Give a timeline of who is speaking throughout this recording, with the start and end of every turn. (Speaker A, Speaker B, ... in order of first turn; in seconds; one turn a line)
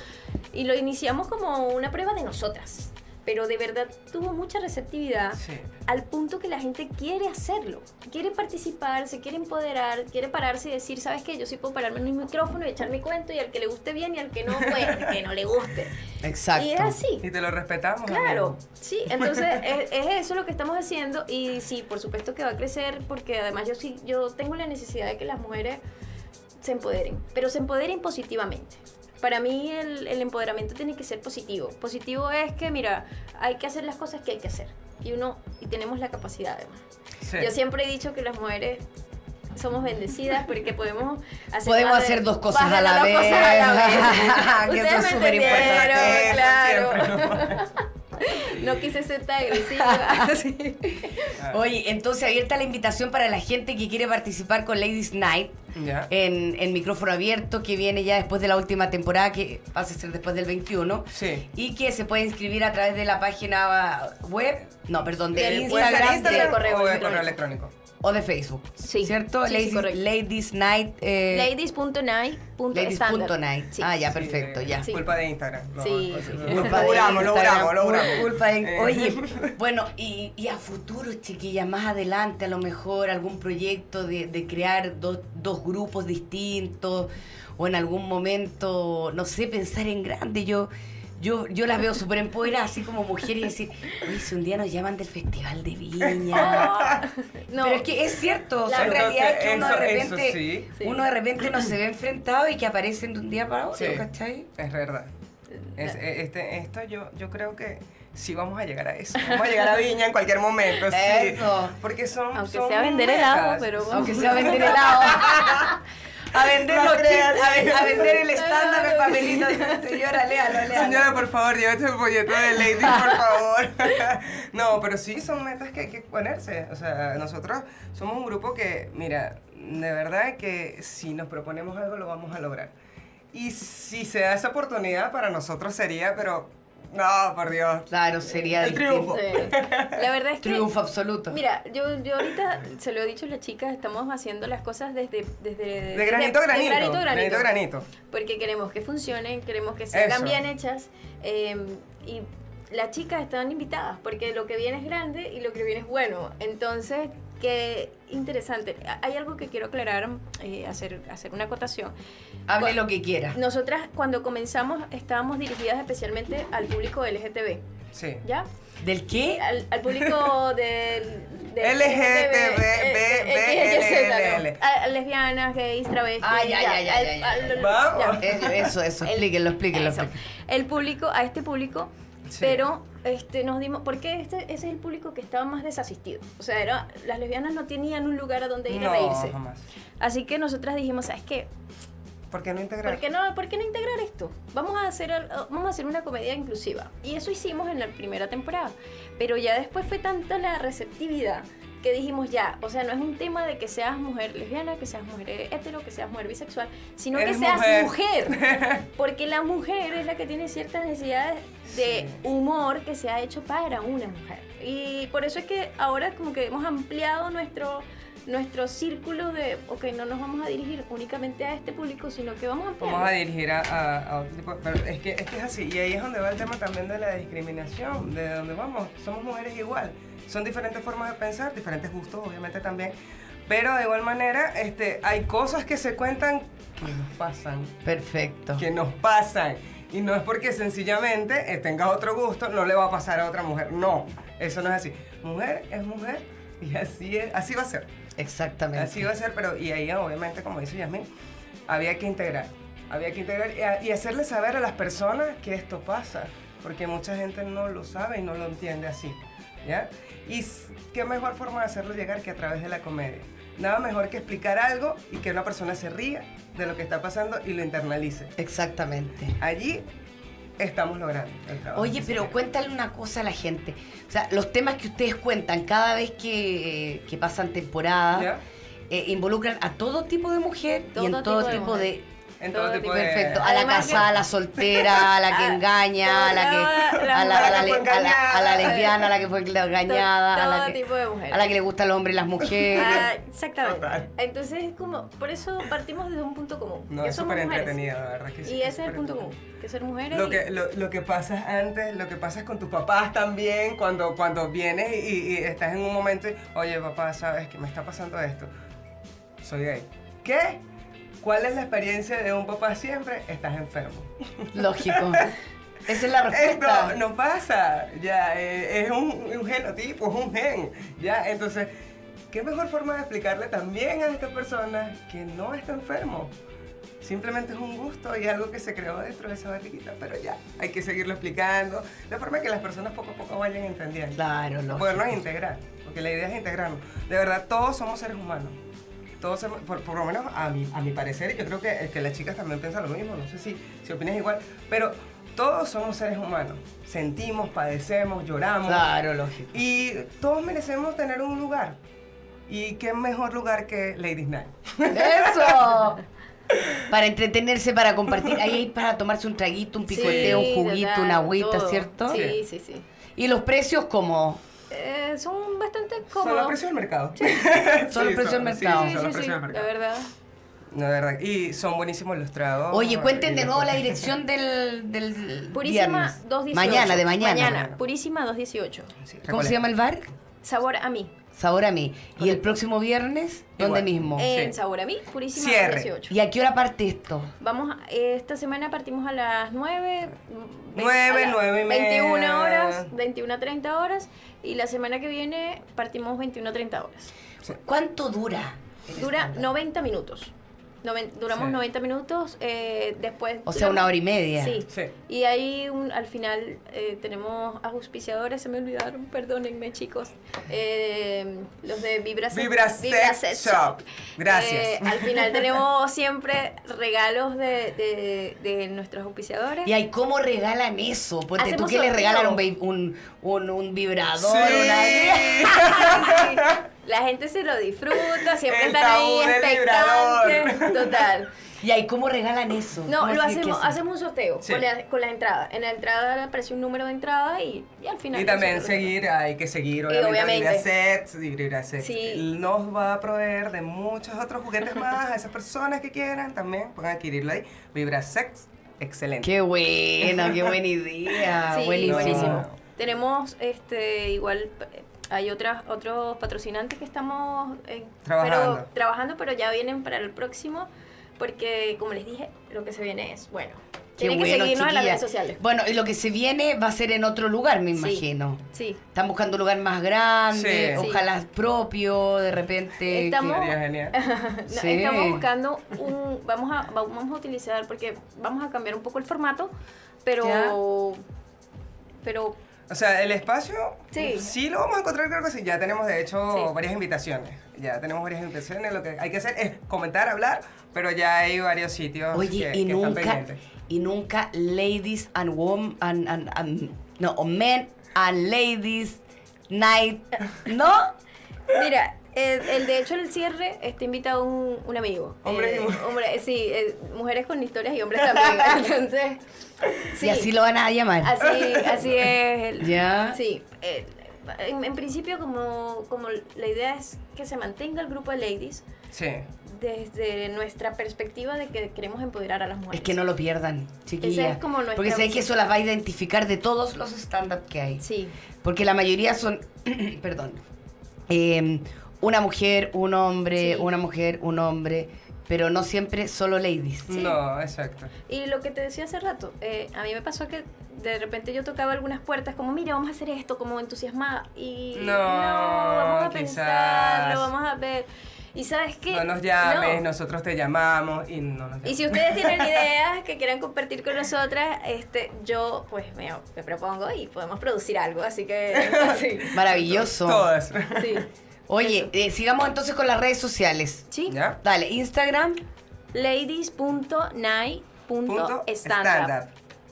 Speaker A: 0.5-16.0
Speaker B: 5.4-5.7
Speaker C: 16.2-17.0
Speaker A: 16.6-17.3
Speaker B: 17.2-18.6
Speaker A: 18.1-25.8
Speaker B: 19.1-19.6
Speaker A: 26.6-36.8
Speaker B: 37.2-37.5
Speaker A: 37.4-38.9
Speaker A: 39.5-51.4
Speaker C: 41.6-46.4
Speaker B: 45.3-47.7
Speaker C: 49.6-50.2
Speaker C: 51.4-66.7
Speaker B: 55.8-56.1
Speaker B: 61.1-61.5
Speaker B: 65.3-67.7
Speaker A: 65.3-67.4
Speaker C: 68.0-71.5
Speaker A: 68.8-70.0
Speaker A: 71.3-73.9
Speaker C: 72.7-74.9
Speaker B: 74.1-79.5
Speaker A: 75.8-77.2
Speaker C: 76.4-96.7
Speaker B: 96.1-97.0
Speaker A: 96.3-97.9
Speaker C: 97.6-104.5
Speaker A: 98.7-99.2
Speaker B: 98.7-100.7
Speaker A: 100.8-101.0
Speaker B: 103.7-105.1
Speaker B: 105.8-115.8
Speaker A: 109.2-109.7
Speaker C: 110.9-111.8
Speaker A: 112.3-115.3
Speaker C: 113.9-115.8
Speaker C: 116.3-121.1
Speaker B: 116.4-118.2
Speaker A: 117.7-120.2
Speaker B: 120.7-132.7
Speaker A: 122.5-123.2
Speaker B: 133.3-137.9
Speaker C: 137.9-139.2
Speaker B: 138.5-140.1
Speaker A: 139.1-140.7
Speaker C: 140.4-141.4
Speaker A: 141.3-147.5
Speaker B: 145.9-147.9
Speaker A: 148.1-161.9
Speaker B: 149.9-150.4
Speaker C: 162.5-163.4
Speaker A: 163.3-167.6
Speaker B: 167.9-168.2
Speaker A: 168.2-168.5
Speaker C: 168.8-169.4
Speaker A: 169.3-178.3
Speaker B: 171.6-174.6
Speaker C: 176.2-180.2
Speaker B: 177.6-178.7
Speaker A: 179.0-189.4
Speaker B: 182.3-182.6
Speaker B: 188.7-189.7
Speaker A: 190.0-191.5
Speaker B: 192.3-193.0
Speaker A: 192.8-208.4
Speaker B: 207.1-208.8
Speaker A: 209.0-223.1
Speaker B: 211.7-212.2
Speaker B: 222.8-232.9
Speaker B: 233.5-237.7
Speaker C: 237.8-238.7
Speaker B: 238.6-247.9
Speaker C: 248.2-249.1
Speaker B: 248.8-251.1
Speaker B: 251.7-268.4
Speaker C: 268.4-269.4
Speaker B: 269.4-269.9
Speaker B: 270.6-272.3
Speaker C: 271.8-278.3
Speaker B: 278.1-278.4
Speaker C: 278.9-282.1
Speaker A: 280.9-281.9
Speaker B: 282.4-284.1
Speaker A: 282.5-284.1
Speaker C: 282.9-293.1
Speaker B: 284.6-285.1
Speaker A: 285.3-287.7
Speaker B: 286.8-289.0
Speaker A: 288.6-288.9
Speaker A: 289.9-291.6
Speaker B: 292.6-293.1
Speaker A: 292.8-297.8
Speaker B: 293.6-294.1
Speaker B: 296.9-299.3
Speaker A: 298.4-300.4
Speaker B: 300.1-308.5
Speaker B: 309.4-310.6
Speaker B: 311.2-315.3
Speaker C: 314.6-315.3
Speaker C: 315.9-317.0
Speaker B: 316.3-321.7
Speaker B: 322.3-326.3
Speaker B: 327.0-338.6
Speaker C: 334.2-335.2
Speaker B: 339.2-348.9
Speaker C: 348.6-349.6
Speaker B: 349.5-351.8
Speaker B: 352.5-355.8
Speaker C: 354.9-356.0
Speaker C: 356.9-362.2
Speaker A: 359.9-362.9
Speaker B: 360.0-360.5
Speaker B: 362.1-362.4
Speaker C: 363.2-364.4
Speaker A: 364.7-366.6
Speaker B: 366.1-369.7
Speaker A: 367.2-367.4
Speaker C: 367.9-369.0
Speaker A: 368.6-370.1
Speaker B: 370.7-374.0
Speaker C: 372.7-377.6
Speaker A: 375.5-378.9
Speaker B: 376.6-377.8
Speaker B: 379.0-379.7
Speaker C: 379.3-380.1
Speaker A: 380.4-381.1
Speaker C: 381.3-384.3
Speaker B: 383.6-384.6
Speaker A: 384.2-386.1
Speaker B: 385.3-386.0
Speaker C: 386.1-387.3
Speaker A: 387.4-397.1
Speaker B: 390.8-392.9
Speaker C: 397.5-399.5
Speaker A: 399.0-400.3
Speaker A: 400.8-419.7
Speaker B: 401.3-401.6
Speaker C: 403.5-404.6
Speaker B: 412.3-415.5
Speaker C: 419.6-425.9
Speaker A: 421.4-422.4
Speaker B: 424.2-426.6
Speaker A: 425.5-431.3
Speaker B: 428.4-431.1
Speaker C: 431.6-433.8
Speaker A: 432.9-439.0
Speaker B: 438.1-449.3
Speaker A: 439.9-440.7
Speaker A: 441.8-442.2
Speaker C: 449.2-452.4
Speaker B: 450.1-450.5
Speaker A: 451.5-465.4
Speaker B: 451.8-452.6
Speaker B: 458.1-458.7
Speaker C: 464.0-468.4
Speaker A: 467.8-468.8
Speaker C: 468.9-473.4
Speaker B: 470.3-470.8
Speaker A: 470.8-471.1
Speaker A: 472.9-479.5
Speaker B: 473.2-474.0
Speaker C: 474.5-475.2
Speaker A: 480.0-481.0
Speaker C: 480.2-480.6
Speaker A: 482.0-482.4
Speaker B: 482.7-493.4
Speaker A: 483.9-484.3
Speaker C: 492.1-500.9
Speaker A: 501.5-509.2
Speaker B: 505.2-505.9
Speaker A: 509.8-510.3
Speaker C: 510.0-511.2
Speaker A: 511.0-518.6
Speaker B: 511.2-511.9
Speaker C: 512.6-513.2
Speaker B: 518.9-519.3
Speaker A: 519.5-523.0
Speaker C: 522.7-527.8
Speaker A: 524.0-525.3
Speaker A: 527.8-528.1
Speaker C: 528.4-530.4
Speaker C: 531.1-537.1
Speaker A: 533.4-533.7
Speaker B: 536.9-537.9
Speaker A: 538.1-549.8
Speaker B: 544.8-547.3
Speaker B: 548.9-552.7
Speaker A: 551.6-559.3
Speaker B: 558.5-561.0
Speaker C: 559.3-560.3
Speaker A: 560.8-561.1
Speaker C: 561.5-563.9
Speaker A: 561.6-561.9
Speaker A: 563.9-564.2
Speaker B: 564.1-564.4
Speaker C: 564.4-565.4
Speaker A: 565.9-569.1
Speaker B: 568.1-569.3